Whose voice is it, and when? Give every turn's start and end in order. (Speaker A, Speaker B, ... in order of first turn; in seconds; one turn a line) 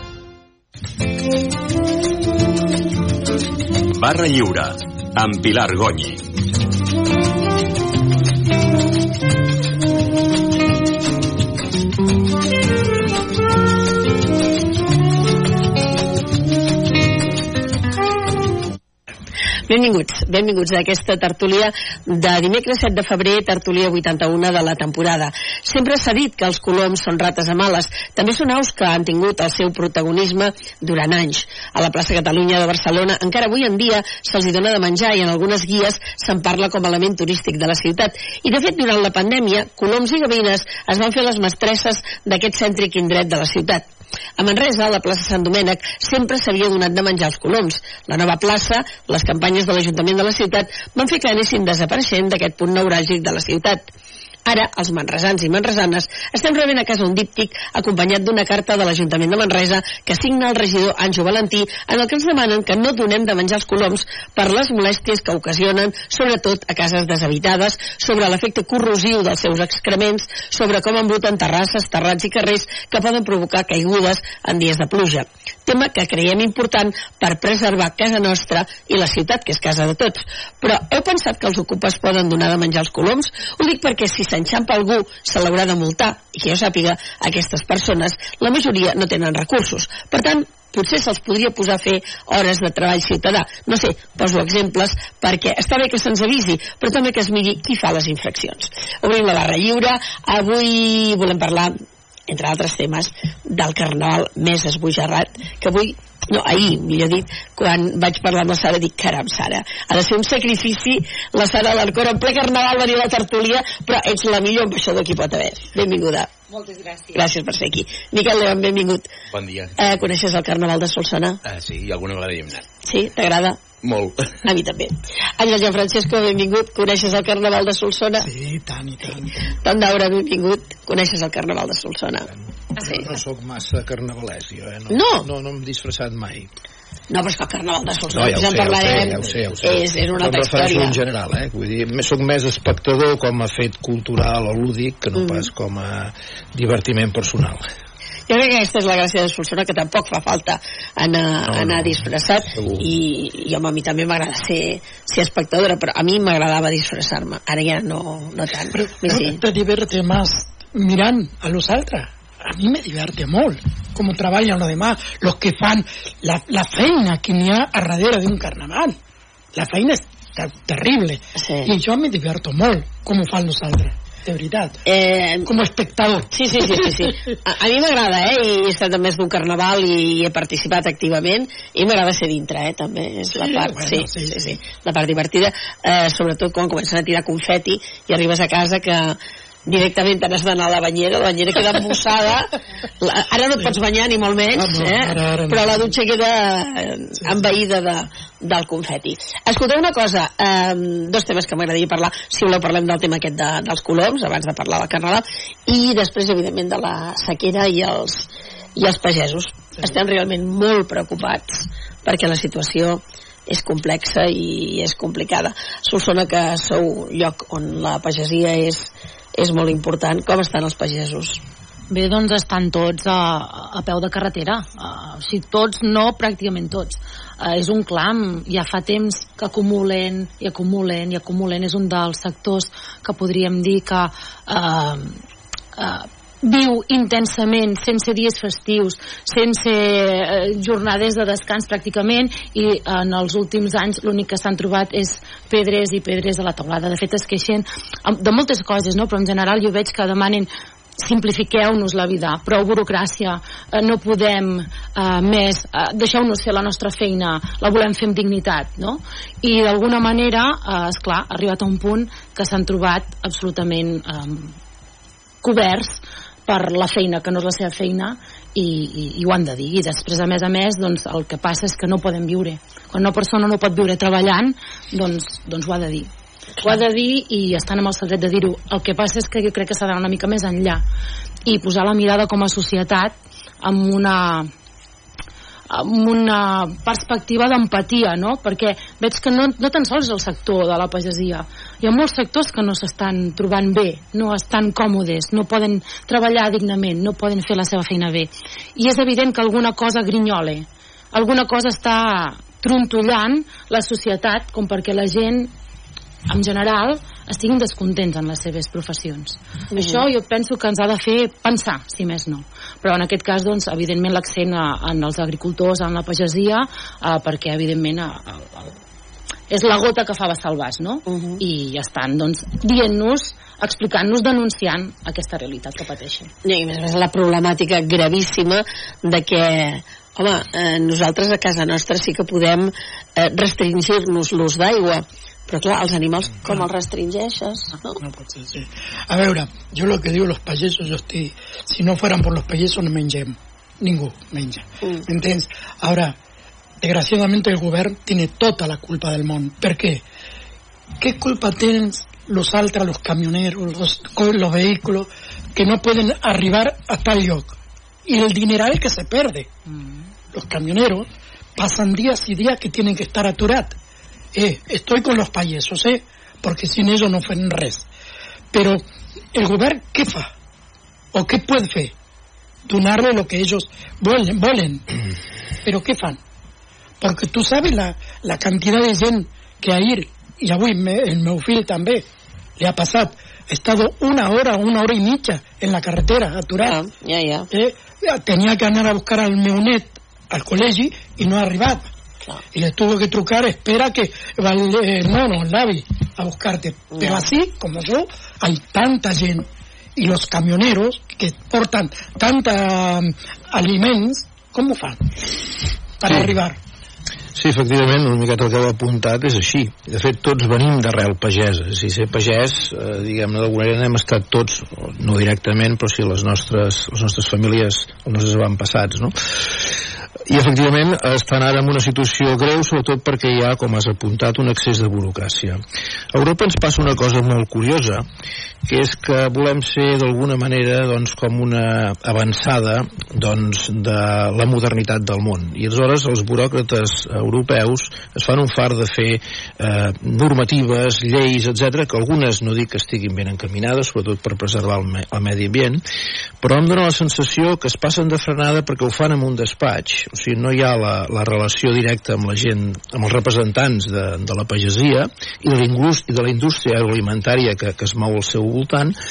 Speaker A: 3.9-6.2
Speaker B: 19.7-43.9
Speaker B: 44.4-53.8
Speaker B: 54.4-101.7
Speaker B: 102.3-116.3
Speaker C: 116.5-117.1
Speaker B: 117.1-119.1
Speaker D: 119.3-120.0
Speaker B: 119.8-121.4
Speaker D: 121.4-122.6
Speaker B: 122.8-123.6
Speaker D: 123.8-124.3
Speaker B: 124.4-128.3
Speaker E: 128.2-129.4
Speaker B: 129.6-132.3
Speaker F: 132.8-136.5
Speaker B: 134.9-135.3
Speaker B: 137.1-141.0
Speaker F: 138.1-147.7
Speaker B: 145.2-145.4
Speaker B: 148.3-159.4
Speaker E: 158.7-168.9
Speaker E: 169.5-174.8
Speaker B: 171.4-171.7
Speaker B: 174.8-175.5
Speaker E: 175.4-177.0
Speaker B: 176.3-221.4
Speaker E: 183.3-184.6
Speaker E: 194.5-195.9
Speaker C: 221.9-235.2
Speaker C: 235.8-264.6
Speaker C: 265.4-276.1
Speaker C: 276.6-280.8
Speaker C: 281.4-284.5
Speaker C: 285.7-305.5
Speaker C: 306.3-318.7
Speaker B: 309.7-310.0
Speaker C: 319.5-326.3
Speaker B: 321.1-321.4
Speaker B: 326.4-338.0
Speaker E: 338.0-346.1
Speaker E: 346.8-350.0
Speaker E: 351.0-357.5
Speaker E: 358.1-359.5
Speaker E: 360.3-363.7
Speaker E: 364.3-367.9
Speaker E: 368.5-368.8
Speaker E: 369.3-370.3
Speaker E: 371.1-371.9
Speaker E: 372.7-374.9
Speaker E: 375.6-376.2
Speaker E: 377.0-382.1
Speaker E: 382.6-386.8
Speaker B: 386.6-387.5
Speaker E: 387.5-391.9
Speaker E: 392.5-406.6
Speaker B: 396.9-397.3
Speaker F: 407.3-419.7
Speaker F: 420.2-425.6
Speaker F: 426.1-428.0
Speaker F: 428.6-445.8
Speaker F: 446.4-458.9